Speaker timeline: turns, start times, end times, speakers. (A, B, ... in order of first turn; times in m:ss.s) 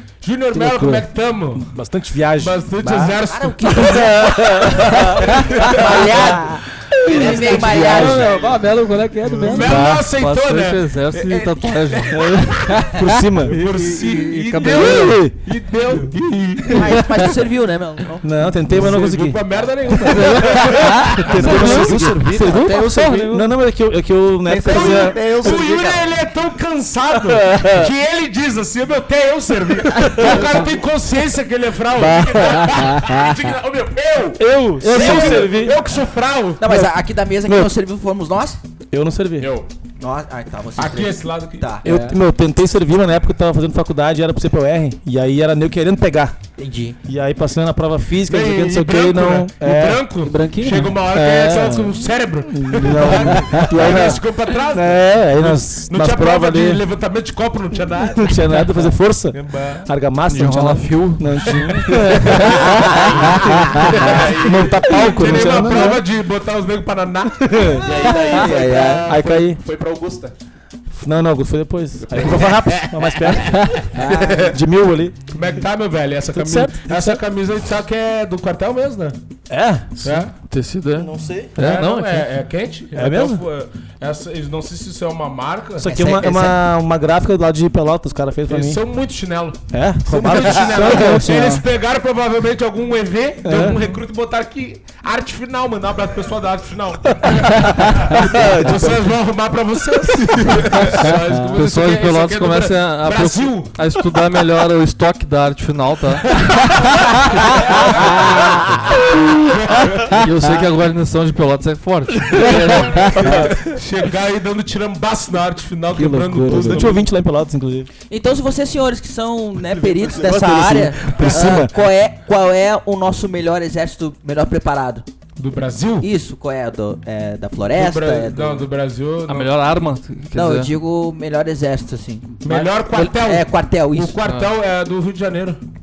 0:00.2-0:01.7 A
0:00.5-0:01.1 B
0:01.6-0:03.1 C
0:02.4-0:04.7 A
0:02.8-0:08.5 D
0:03.7-0:05.0 C
0:05.3-0:06.1 A
0:05.9-0:06.4 C
0:05.9-0:06.4 B
0:07.0-0:09.9 B
0:07.1-0:08.3 C
0:09.4-0:12.7 A
0:09.5-0:10.1 C
0:10.1-0:12.2 E
0:12.1-0:13.6 C
0:12.7-0:13.0 B
0:13.5-0:17.0 A
0:13.5-0:15.2 E
0:14.6-0:15.4 C
0:16.7-0:18.4 D
0:18.2-0:20.6 C
0:18.7-0:22.0 A
0:20.0-0:23.4 B
0:21.1-0:25.6 C
0:21.3-0:22.6 E
0:24.5-0:25.2 E
0:24.7-0:26.1 D
0:24.7-0:32.4 A
0:29.9-0:30.4 C
0:31.9-0:32.8 C
0:32.0-0:34.4 F
0:32.6-0:33.3 B
0:34.4-0:35.8 C
0:34.8-0:36.7 A
0:35.0-0:35.4 D
0:35.1-0:35.5 F
0:36.6-0:38.6 D
0:37.5-0:37.7 C
0:38.9-0:39.5 C
0:39.4-0:39.7 F
0:40.0-0:41.9 D
0:40.8-0:41.8 A
0:41.8-0:46.4 C
0:46.6-0:47.0 D
0:47.0-0:50.1 C
0:48.3-0:58.6 A
0:50.2-0:51.0 B
0:51.1-0:56.8 C
0:58.1-1:06.0 C
0:59.3-0:59.9 A
1:00.3-1:02.4 E
1:01.5-1:03.4 A
1:03.9-1:05.6 F
1:04.2-1:07.7 A
1:07.4-1:07.9 C
1:07.8-1:10.3 F
1:08.1-1:09.1 D
1:09.1-1:09.6 C
1:10.9-1:13.8 C
1:12.1-1:13.3 F
1:14.0-1:14.3 D
1:14.0-1:14.5 F
1:14.5-1:15.2 C
1:15.3-1:19.2 A
1:16.3-1:17.2 C
1:19.5-1:20.2 C
1:20.0-1:20.3 A
1:20.5-1:22.3 E
1:21.0-1:21.5 C
1:21.6-1:26.0 A
1:22.9-1:23.4 C
1:25.8-1:28.8 C
1:25.8-1:26.6 D
1:28.5-1:43.7 A
1:29.7-1:31.6 C
1:30.7-1:31.6 B
1:33.4-1:33.9 C
1:37.2-1:39.1 C
1:41.6-1:46.4 E
1:47.5-1:47.9 E
1:47.7-1:48.3 A
1:48.0-1:48.5 B
1:49.4-1:50.2 A
1:50.1-1:53.4 E
1:52.4-1:53.5 B
1:52.4-1:53.6 C
1:53.5-1:57.0 A
1:55.9-1:56.9 B
1:56.5-1:57.9 C
1:58.1-2:05.0 D
1:59.8-2:01.8 C
2:05.4-2:06.1 A
2:06.0-2:08.7 D
2:07.7-2:09.5 A
2:09.3-2:10.7 E
2:10.3-2:14.2 D
2:12.4-2:15.6 A
2:14.2-2:14.5 E